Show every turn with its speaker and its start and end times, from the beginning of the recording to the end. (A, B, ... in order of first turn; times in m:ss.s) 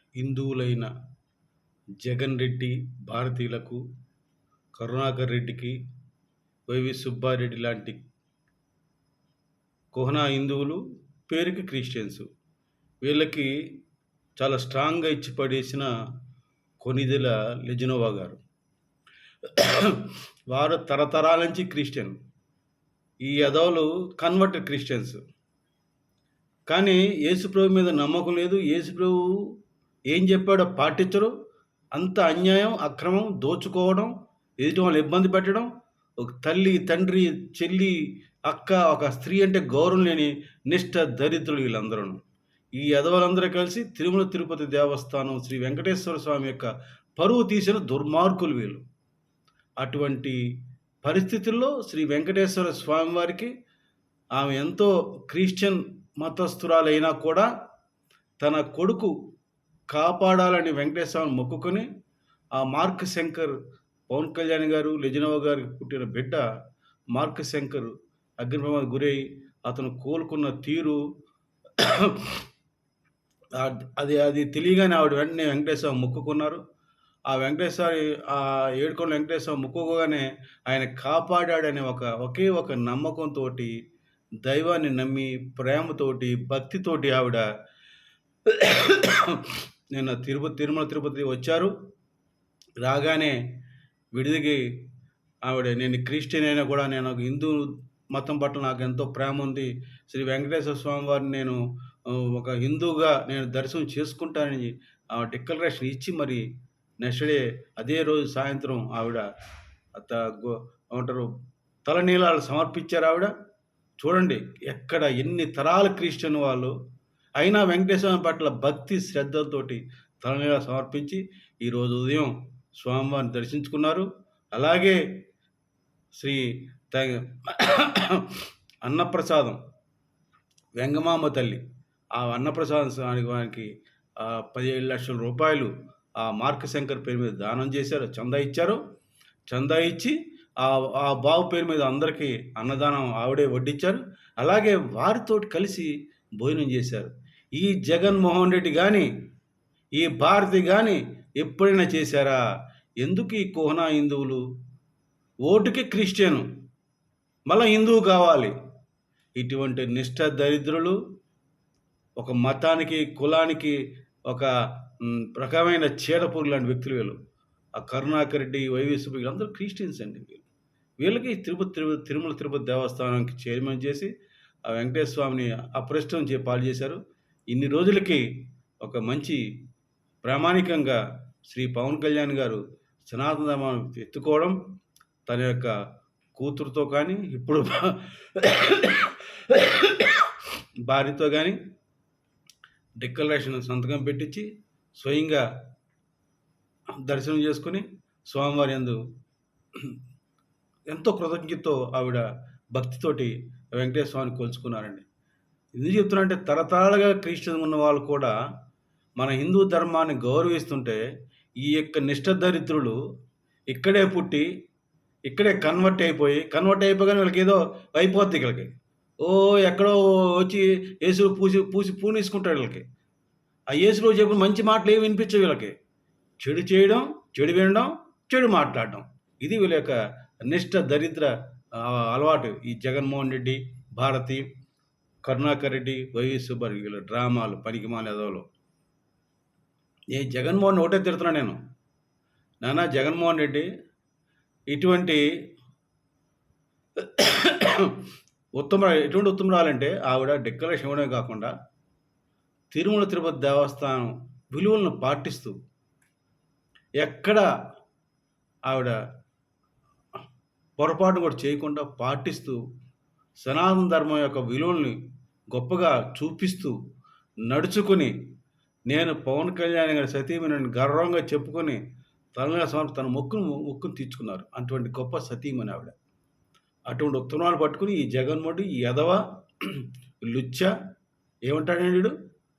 0:00.2-0:00.9 A
0:02.0-0:03.8 A
0:04.7-0:05.8 A
0:06.7-0:08.0 A
0:09.9-0:12.3 A
0:13.0-0:13.8 A
0:14.4-0:15.9 A
0:16.8-0:18.4 A
0:19.5-0:22.2 A
0:23.2-0:25.2 A
0:26.7-0:29.6 A
0:30.1-0:31.3 A
0:31.9-0:35.7 A
0:36.2-0:42.2 A
0:42.8-0:48.8 A
0:49.8-0:50.4 A
0:51.0-0:53.5 A
0:54.3-0:57.5 A
0:58.4-0:59.1 A
0:59.9-1:01.9 A
1:02.6-1:03.5 A
1:04.1-1:06.4 A
1:07.1-1:11.0 A
1:11.8-1:12.4 A
1:13.6-1:16.6 A
1:17.3-1:23.7 A
1:24.4-1:27.4 A
1:28.4-1:31.7 A
1:32.8-1:33.4 A
1:34.1-1:34.6 A
1:35.4-1:46.4 A
1:47.0-1:49.2 A
1:49.9-1:51.3 A
1:51.8-1:53.3 A
1:54.0-1:56.7 A
1:57.4-2:05.0 A
2:06.2-2:09.6 A
2:10.8-2:11.6 A
2:12.2-2:13.7 A
2:14.2-2:18.8 A
2:19.5-2:25.9 A
2:26.4-2:29.1 A
2:30.0-2:32.4 A
2:33.0-2:34.4 A
2:35.5-2:36.4 A
2:37.5-2:38.5 A
2:39.4-2:41.0 A
2:42.2-2:43.8 A
2:45.0-2:47.2 A
2:47.8-2:50.4 A
2:51.0-2:54.1 A
2:54.7-2:58.2 A
2:58.8-2:59.4 A
3:00.2-3:04.6 A
3:05.3-3:05.7 A
3:06.3-3:10.4 A
3:10.9-3:11.6 A
3:13.0-3:15.4 A
3:17.0-3:19.0 A
3:20.9-3:25.0 A
3:25.8-3:28.3 A
3:29.2-3:31.0 A
3:31.6-3:33.0 A
3:33.7-3:34.4 A
3:35.3-3:42.8 A
3:43.7-3:45.7 A
3:46.4-3:54.4 A
3:55.2-3:58.4 A
4:00.1-4:01.6 A
4:02.6-4:03.7 A
4:04.7-4:05.2 A
4:07.0-4:08.0 A
4:08.6-4:11.5 A
4:12.7-4:15.5 A
4:17.0-4:17.4 A
4:18.7-4:18.9 A
4:20.8-4:22.6 A
4:23.4-4:25.0 A
4:25.5-4:26.7 A
4:27.5-4:28.1 A
4:28.9-4:31.8 A
4:32.4-4:35.9 A
4:36.9-4:40.7 A
4:41.5-4:42.1 A